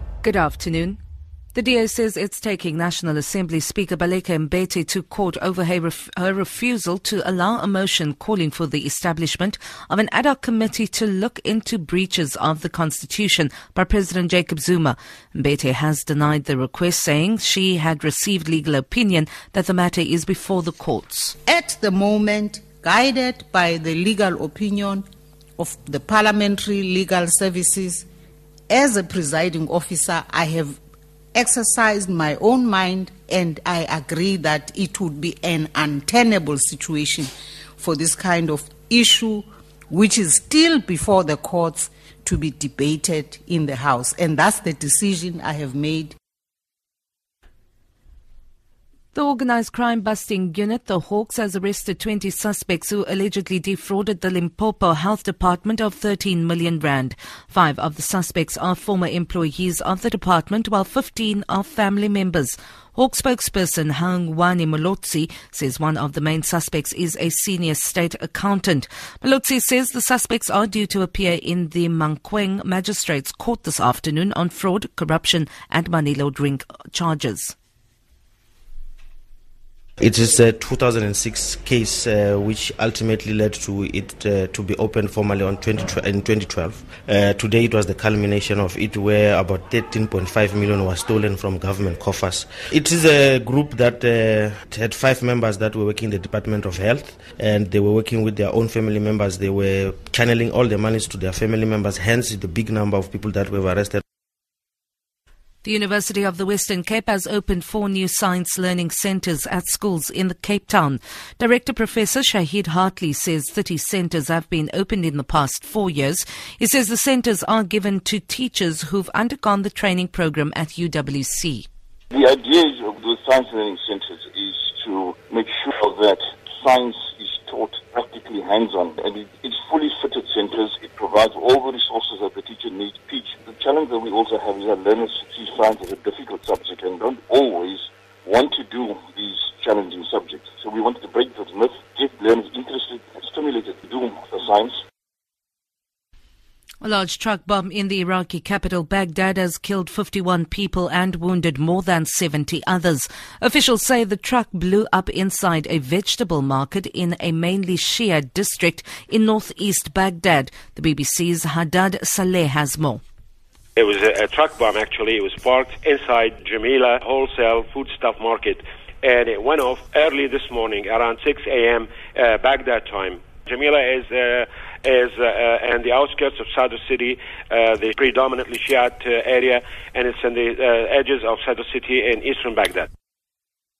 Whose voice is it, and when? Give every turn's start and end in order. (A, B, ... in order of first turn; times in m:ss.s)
0:00.2-0:01.0 A
0:01.5-0:21.3 A
0:21.4-0:25.0 B
0:25.6-0:28.0 B
0:28.7-0:30.8 B
0:31.3-0:46.1 B
0:49.1-1:17.5 A
1:20.0-1:44.0 C
1:45.6-2:01.7 A
2:02.1-2:24.8 D
2:26.8-2:43.0 A
2:43.8-3:02.9 E